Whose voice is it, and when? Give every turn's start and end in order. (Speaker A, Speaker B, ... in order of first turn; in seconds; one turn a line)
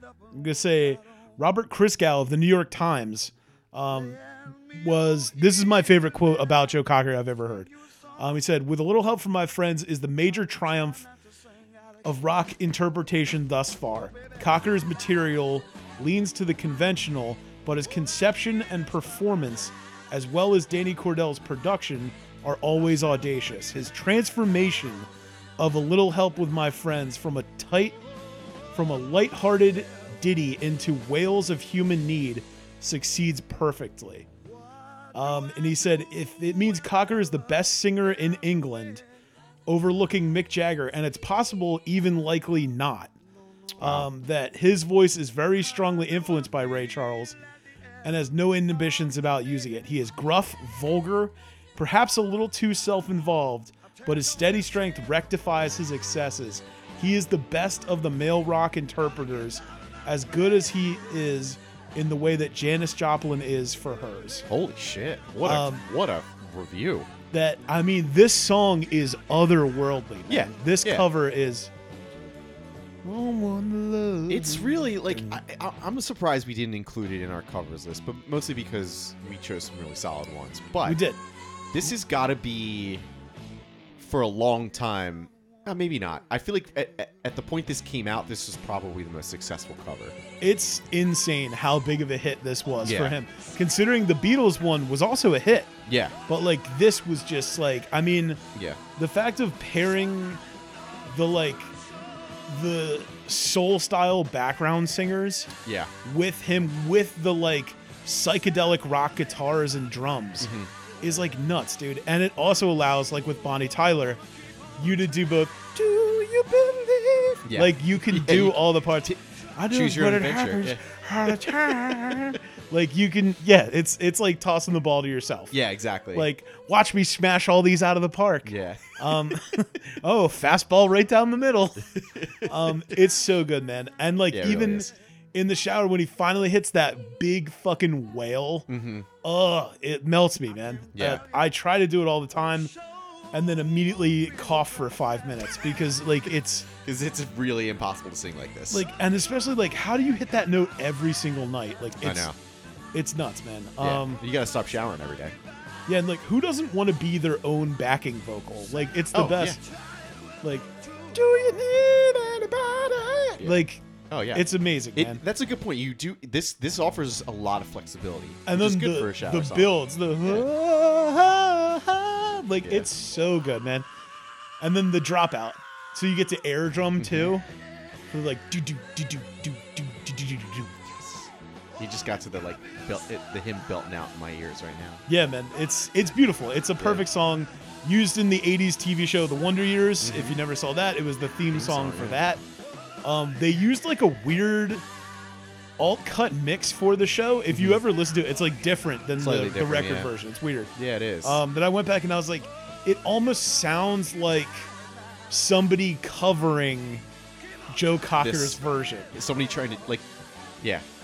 Speaker A: 0.3-11.1
Speaker A: 12.1-25.1
Speaker A: 25.6-28.0
Speaker A: 28.7-34.3
Speaker A: 35.1-39.0
Speaker A: 39.7-43.1
Speaker A: 43.8-47.4
Speaker B: 43.8-44.1
Speaker A: 48.0-64.5
Speaker B: 64.5-67.1
Speaker A: 65.4-65.8
Speaker A: 67.3-71.7
Speaker B: 70.3-71.1
Speaker A: 73.0-75.4
Speaker B: 74.3-81.0
Speaker A: 80.8-81.2
Speaker B: 81.7-83.1
Speaker B: 84.0-90.2
Speaker A: 90.4-95.7
Speaker B: 92.8-93.2
Speaker B: 95.9-96.2
Speaker A: 96.3-98.4
Speaker B: 98.5-98.8
Speaker A: 99.0-100.4
Speaker A: 101.1-101.7
Speaker A: 102.5-105.5
Speaker B: 105.7-105.9
Speaker A: 106.0-114.2
Speaker B: 110.4-110.7
Speaker A: 114.8-125.5
Speaker B: 117.5-118.7
Speaker B: 119.7-122.4
Speaker B: 125.5-126.3
Speaker A: 126.1-131.9
Speaker B: 128.4-129.3
Speaker B: 132.0-133.0
Speaker A: 132.4-138.7
Speaker B: 134.3-134.9
Speaker B: 138.7-139.1
Speaker A: 139.2-142.7
Speaker B: 140.9-141.2
Speaker A: 143.3-146.7
Speaker B: 146.8-148.8
Speaker A: 148.7-152.3
Speaker B: 152.0-152.4
Speaker A: 152.9-154.2
Speaker B: 153.8-155.4
Speaker A: 155.9-159.6
Speaker B: 159.1-159.6
Speaker A: 160.4-163.8
Speaker B: 163.2-170.5
Speaker A: 164.3-165.2
Speaker A: 168.5-173.9
Speaker B: 172.6-172.9
Speaker A: 174.6-177.5
Speaker B: 177.0-177.3
Speaker A: 178.1-181.3
Speaker B: 181.8-185.0
Speaker A: 185.1-192.4
Speaker B: 186.8-187.1
Speaker B: 190.0-190.4
Speaker B: 191.5-192.2
Speaker A: 193.0-194.8
Speaker A: 195.8-204.7
Speaker B: 197.5-197.8
Speaker B: 199.2-200.1
Speaker B: 200.8-201.4
Speaker A: 205.3-207.1
Speaker A: 207.7-209.1
Speaker B: 208.2-208.6
Speaker B: 209.1-210.1